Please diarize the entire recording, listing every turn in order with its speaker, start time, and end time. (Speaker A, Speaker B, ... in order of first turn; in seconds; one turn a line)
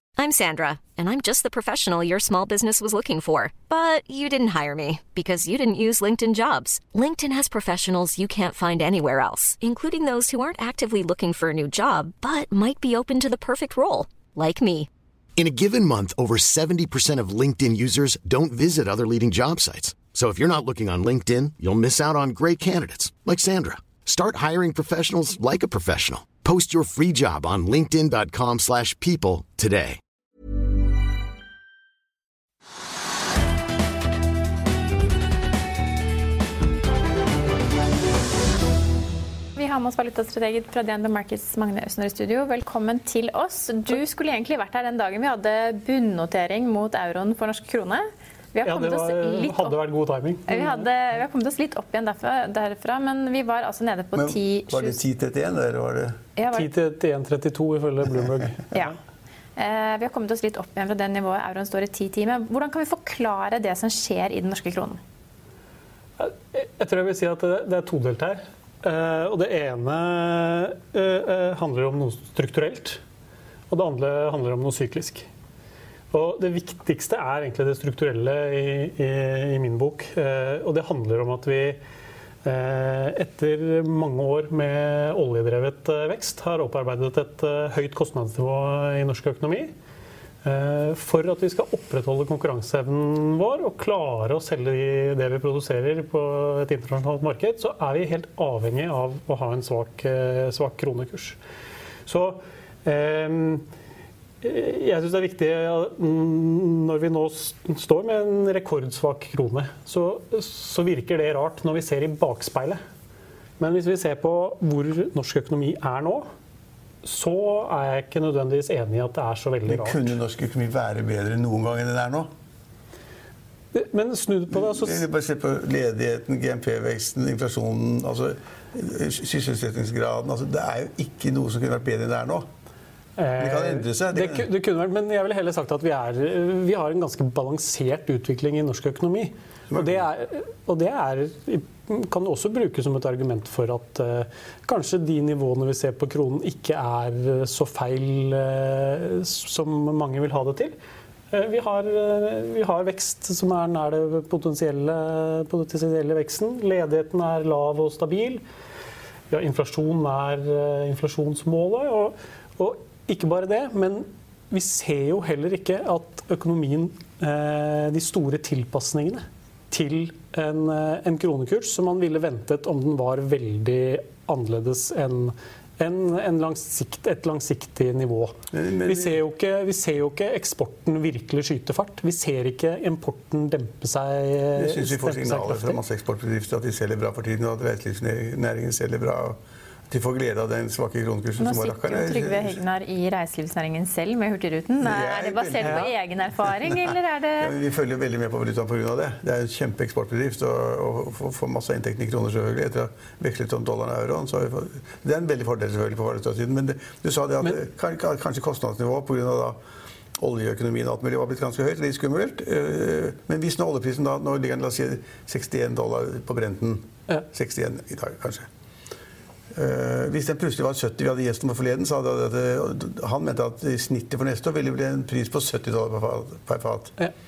Speaker A: 0.2-14.9
Speaker B: 15.4-30.0
Speaker C: 39.6-48.0
Speaker C: 48.5-49.8
Speaker D: 48.6-50.9
Speaker C: 50.5-55.0
Speaker E: 54.1-56.2
Speaker C: 56.4-56.7
Speaker D: 56.5-58.8
Speaker C: 59.6-65.0
Speaker D: 66.2-73.0
Speaker D: 73.7-75.3
Speaker D: 76.1-81.8
Speaker D: 82.4-89.7
Speaker D: 90.4-101.4
Speaker D: 102.1-103.6
Speaker D: 104.4-112.8
Speaker D: 113.6-116.3
Speaker D: 117.0-120.2
Speaker E: 119.7-122.3
Speaker D: 123.7-125.0
Speaker E: 124.5-132.5
Speaker D: 133.2-150.8
Speaker E: 133.4-134.5
Speaker E: 139.7-140.0
Speaker D: 151.3-158.4
Speaker D: 159.3-185.8
Speaker E: 178.5-179.2
Speaker E: 184.6-189.4
Speaker E: 189.9-192.6
Speaker C: 191.4-197.6
Speaker E: 194.8-196.0
Speaker D: 195.6-195.9
Speaker E: 197.4-209.6
Speaker E: 210.2-218.5
Speaker E: 219.6-227.0